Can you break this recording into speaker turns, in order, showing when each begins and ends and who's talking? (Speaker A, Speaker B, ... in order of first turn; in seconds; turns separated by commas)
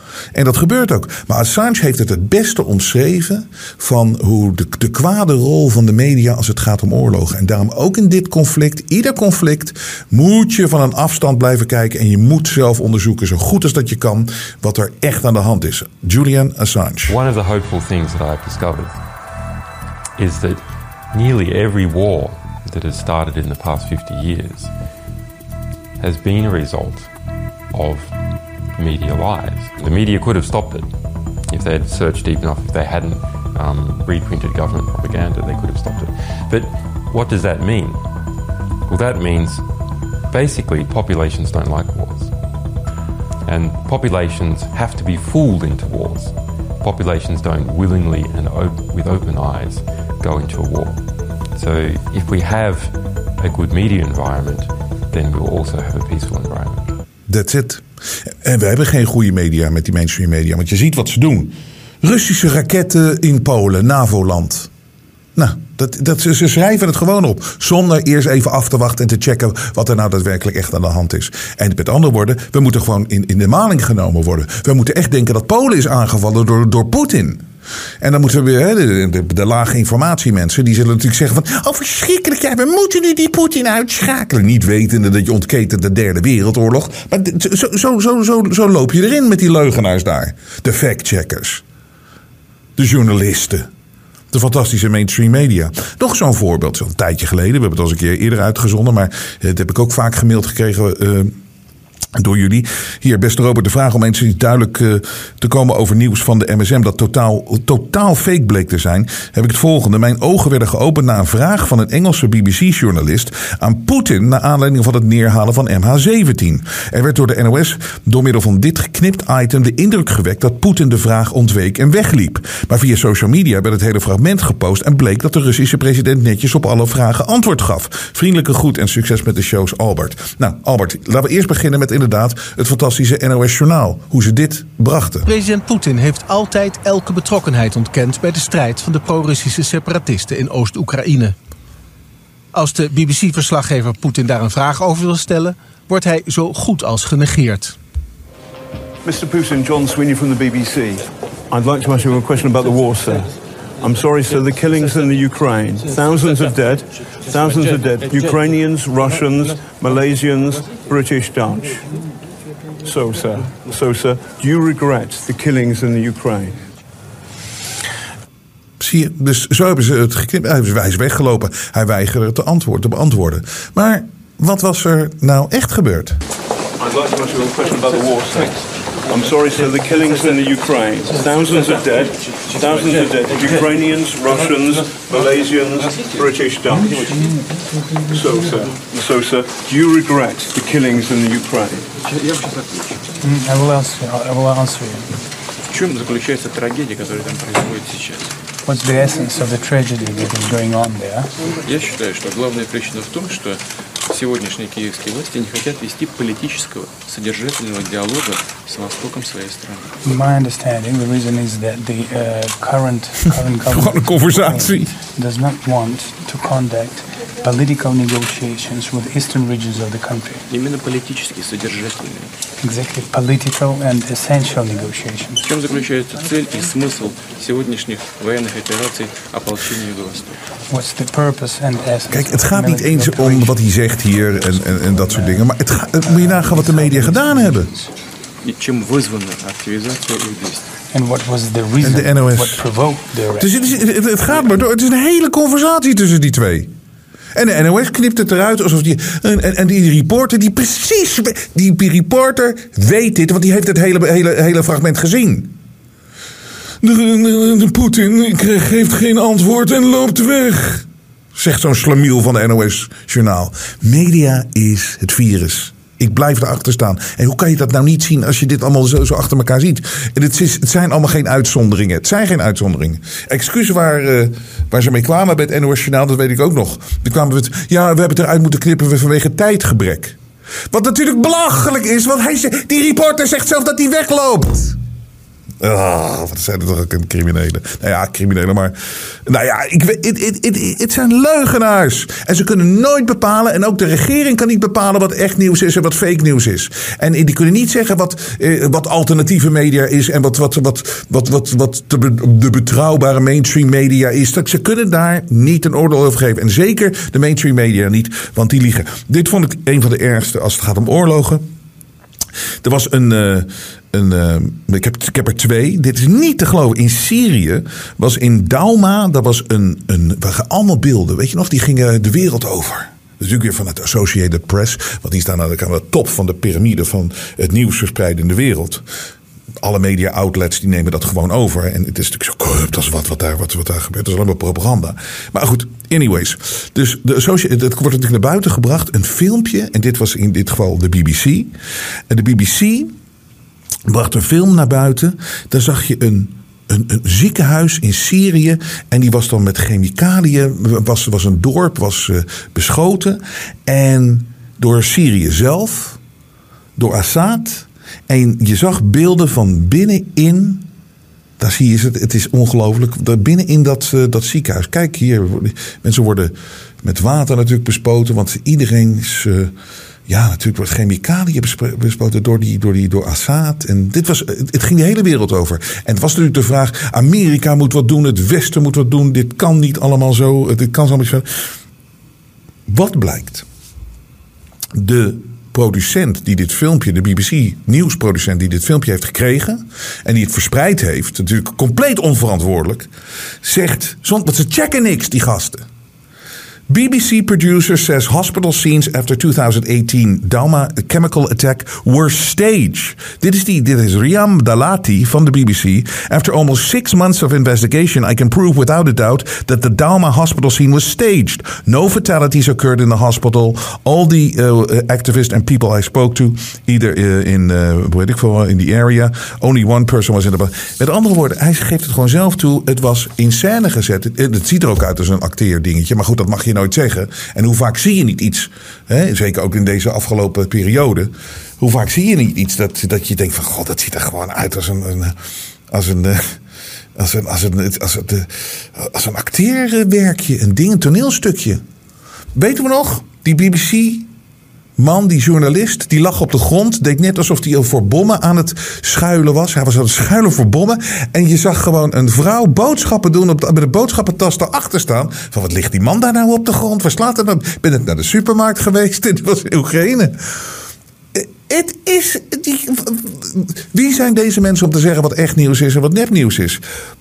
Speaker A: 0.3-17.2, Speaker B: 17.1-19.0, Speaker B: 20.2-24.7, Speaker B: 26.0-27.1, Speaker B: 27.7-28.2, Speaker B: 28.8-30.9, Speaker B: 31.5-38.1, Speaker B: 38.9-39.7, Speaker B: 40.3-42.3, Speaker B: 43.5-57.0, Speaker A: 57.3-57.8, Speaker A: 58.4-64.7, Speaker A: 65.4-77.5, Speaker A: 78.0-91.6, Speaker A: 92.8-93.7, Speaker A: 94.3-101.3, Speaker A: 102.2-135.3, Speaker C: 135.3-141.3, Speaker C: 142.5-147.8, Speaker D: 149.0-161.9, Speaker D: 162.8-166.6, Speaker A: 168.8-176.2, Speaker D: 176.8-187.3, Speaker D: 188.1-191.9, Speaker E: 192.1-193.0, Speaker F: 193.2-195.2, Speaker E: 195.7-198.3, Speaker F: 198.7-201.3, Speaker E: 201.6-210.0, Speaker F: 210.0-220.4, Speaker A: 213.7-214.9, Speaker E: 220.5-222.3, Speaker F: 222.6-225.4, Speaker E: 225.4-230.4, Speaker F: 230.7-233.6, Speaker A: 232.1-237.7, Speaker F: 234.3-235.5, Speaker F: 236.1-237.8, Speaker E: 238.4-240.7, Speaker F: 240.9-243.8, Speaker A: 241.8-242.7, Speaker A: 243.4-246.7, Speaker A: 247.3-255.5, Speaker A: 256.8-280.2, Speaker A: 280.7-284.8, Speaker A: 285.6-288.8, Speaker A: 289.3-311.4, Speaker A: 312.6-328.8, Speaker A: 329.6-341.5, Speaker A: 342.1-342.9, Speaker A: 343.9-356.0, Speaker A: 356.8-360.7, Speaker A: 361.4-369.5, Speaker A: 370.1-381.3, Speaker A: 382.7-383.4, Speaker A: 384.7-392.9, Speaker A: 393.4-395.7, Speaker A: 396.7-435.2, Speaker A: 435.7-436.4, Speaker A: 437.0-441.6, Speaker A: 442.4-444.1, Speaker A: 444.8-460.2, Speaker A: 461.1-466.6